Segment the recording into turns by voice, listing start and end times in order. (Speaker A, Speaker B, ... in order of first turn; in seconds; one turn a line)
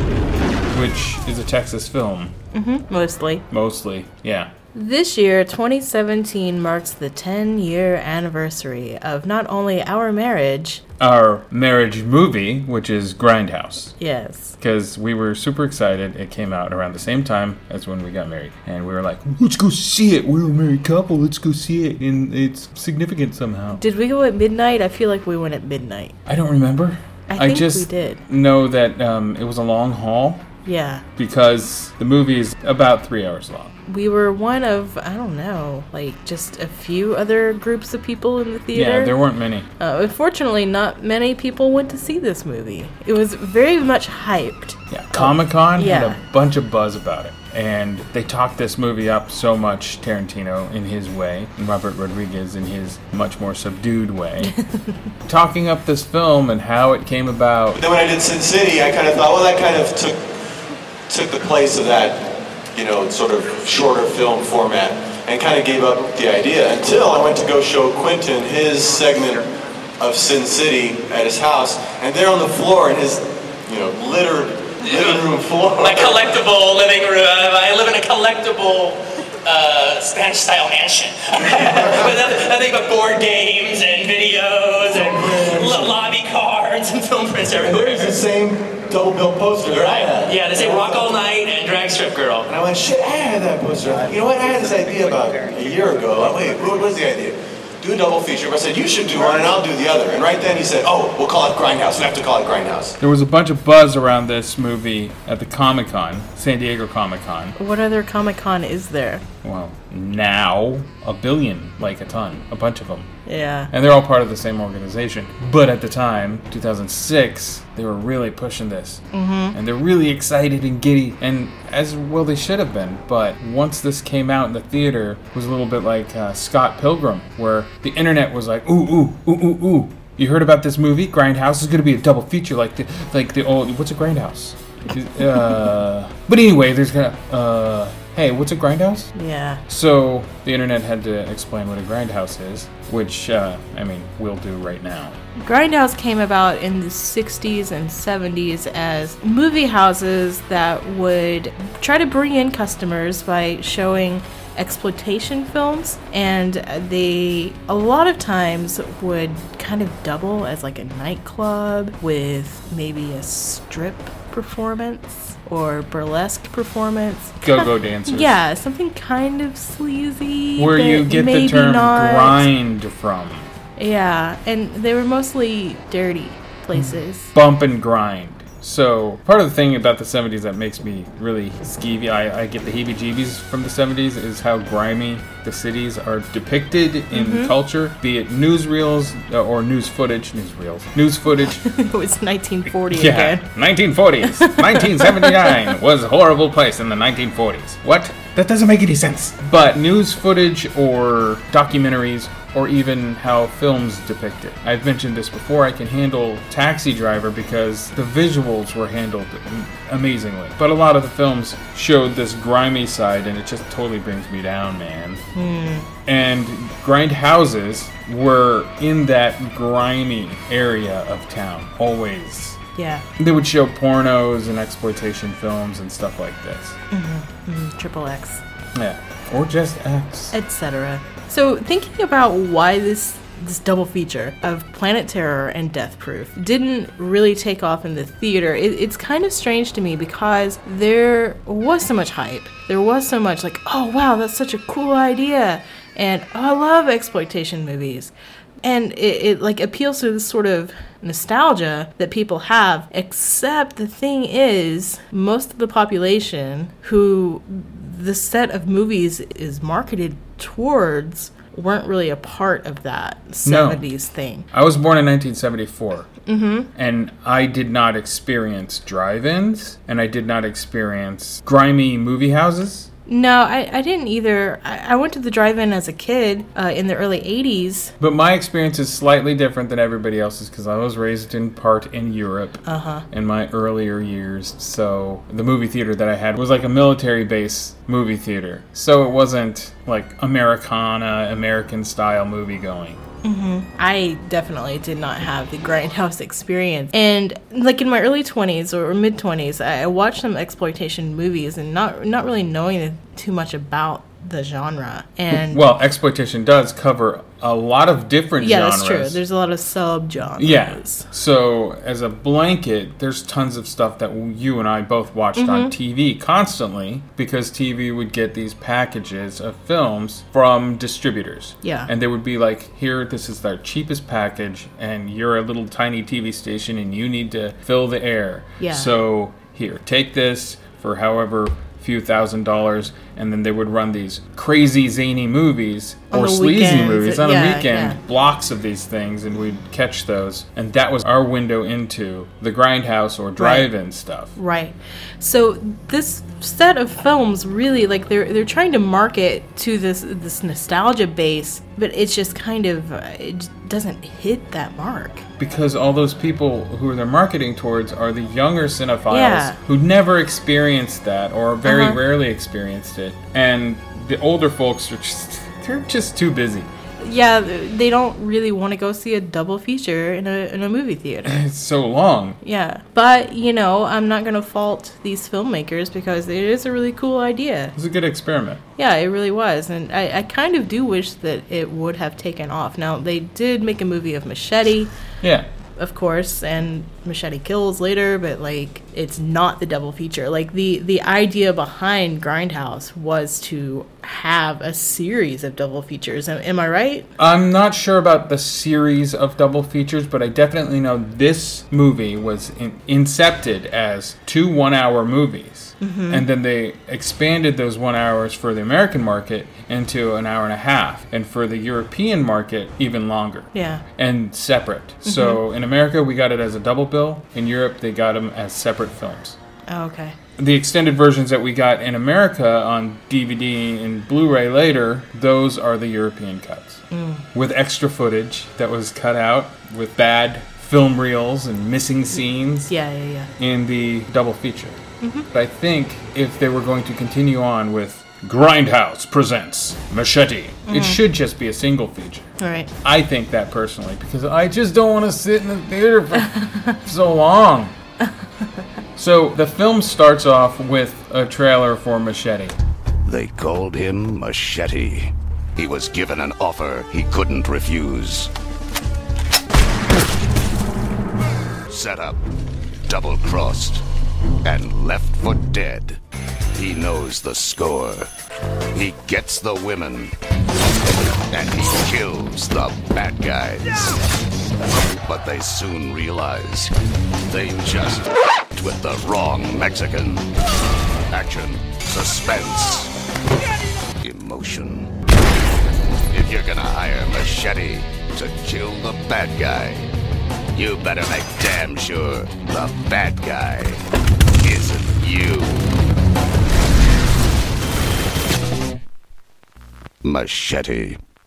Speaker A: 0.7-2.3
Speaker B: 2.5-3.4
Speaker A: 3.5-4.5
Speaker B: 4.7-10.8
Speaker A: 11.0-13.9
Speaker B: 14.0-14.6
Speaker A: 14.6-23.8
Speaker B: 23.8-26.1
Speaker A: 26.2-30.4
Speaker B: 27.3-28.2
Speaker B: 30.6-31.0
Speaker A: 31.2-33.7
Speaker B: 33.9-39.1
Speaker A: 38.7-39.7
Speaker B: 39.8-46.2
Speaker A: 44.9-54.5
Speaker B: 54.4-54.9
Speaker A: 55.3-57.8
Speaker C: 57.7-60.2
Speaker C: 61.1-69.5
Speaker C: 70.0-76.3
Speaker D: 74.8-88.2
Speaker C: 84.9-85.9
Speaker C: 87.6-91.1
Speaker D: 89.7-92.5
Speaker C: 92.4-103.0
Speaker A: 103.0-107.6
Speaker B: 107.6-109.2
Speaker A: 109.4-113.1
Speaker B: 113.2-113.7
Speaker A: 113.7-139.1
Speaker B: 119.1-119.5
Speaker B: 139.1-139.6
Speaker A: 139.7-145.2
Speaker B: 145.4-172.5
Speaker A: 167.4-168.3
Speaker A: 170.6-173.5
Speaker B: 173.8-177.3
Speaker A: 176.7-191.6
Speaker B: 187.1-187.5
Speaker B: 191.6-193.4
Speaker A: 192.9-215.2
Speaker B: 194.3-195.7
Speaker B: 215.3-215.9
Speaker A: 216.0-222.6
Speaker B: 222.8-223.1
Speaker A: 223.2-226.8
Speaker B: 226.9-228.4
Speaker A: 228.7-230.3
Speaker B: 230.3-264.5
Speaker A: 263.4-263.8
Speaker A: 264.5-266.1
Speaker B: 266.2-266.7
Speaker A: 266.7-272.9
Speaker B: 273.1-277.9
Speaker A: 278.0-293.0
Speaker B: 282.6-283.1
Speaker B: 293.2-305.6
Speaker A: 305.3-309.2
Speaker B: 308.4-311.1
Speaker A: 310.4-344.3
Speaker B: 315.4-315.7
Speaker B: 321.6-321.9
Speaker B: 328.6-328.9
Speaker B: 336.1-338.0
Speaker B: 343.4-343.7
Speaker B: 344.4-355.2
Speaker A: 355.4-366.7
Speaker B: 359.1-359.6
Speaker B: 361.6-362.0
Speaker B: 367.0-371.4
Speaker A: 371.2-372.4
Speaker B: 372.4-377.7
Speaker A: 377.7-378.6
Speaker B: 378.8-384.9
Speaker A: 385.2-385.5
Speaker B: 385.8-397.1
Speaker A: 397.2-419.4
Speaker B: 405.8-406.2
Speaker B: 413.5-413.8
Speaker B: 415.0-415.4
Speaker B: 419.7-420.1
Speaker A: 420.4-426.8
Speaker B: 426.9-427.2
Speaker A: 427.3-432.7
Speaker B: 432.6-433.3
Speaker A: 433.4-434.8
Speaker B: 435.0-435.3
Speaker A: 435.3-442.3
Speaker B: 440.7-441.0
Speaker B: 442.4-442.7
Speaker A: 442.8-447.8
Speaker B: 446.2-446.8
Speaker A: 449.0-452.6
Speaker E: 453.1-458.3
Speaker E: 461.7-462.2
Speaker E: 462.9-463.8
Speaker E: 464.4-466.0
Speaker E: 466.5-468.1
Speaker E: 468.7-470.1
Speaker E: 471.3-474.0
Speaker E: 475.0-476.7
Speaker E: 477.3-480.3
Speaker E: 481.1-482.9
Speaker E: 484.0-484.9
Speaker E: 486.1-489.9
Speaker E: 490.5-493.8
Speaker E: 494.4-495.7
Speaker E: 500.0-501.0